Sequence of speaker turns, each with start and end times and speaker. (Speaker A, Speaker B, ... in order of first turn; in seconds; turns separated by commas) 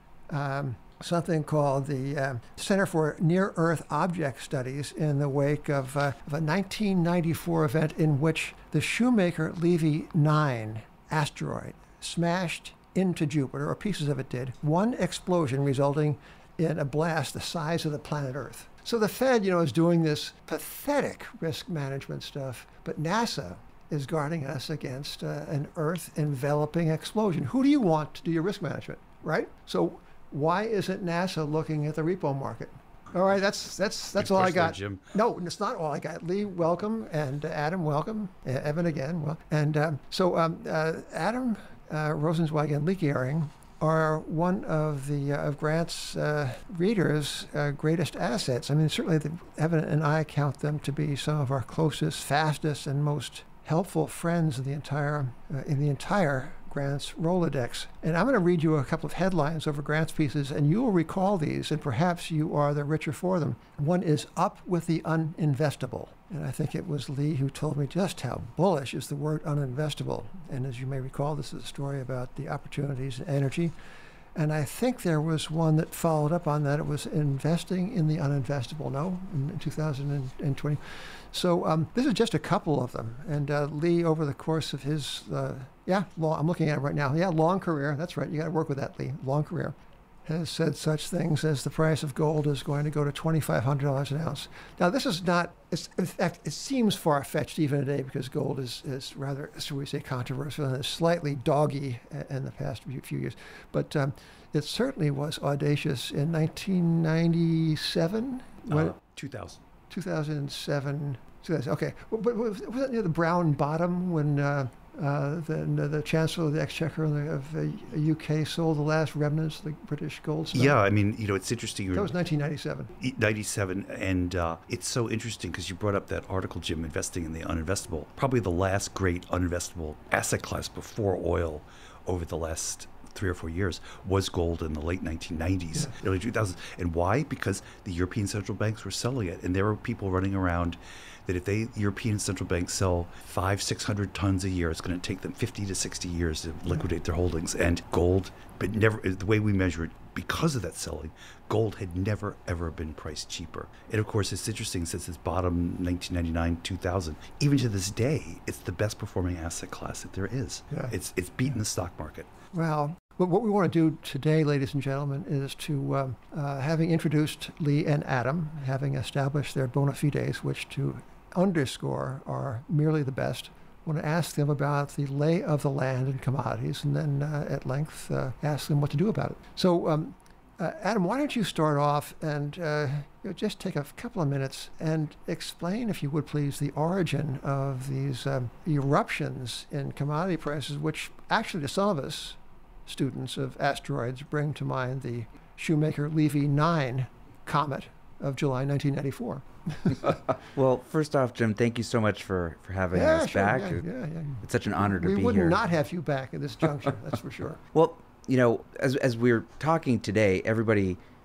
Speaker A: 0.3-73.7, Speaker B: 34.2-35.0, Speaker A: 74.3-108.9, Speaker B: 108.7-109.6, Speaker A: 109.9-120.8, Speaker B: 120.5-122.1, Speaker A: 121.9-122.9, Speaker B: 123.0-162.3, Speaker A: 162.5-200.1, Speaker C: 200.5-203.8, Speaker A: 202.9-207.6, Speaker C: 204.4-205.6, Speaker C: 207.7-211.0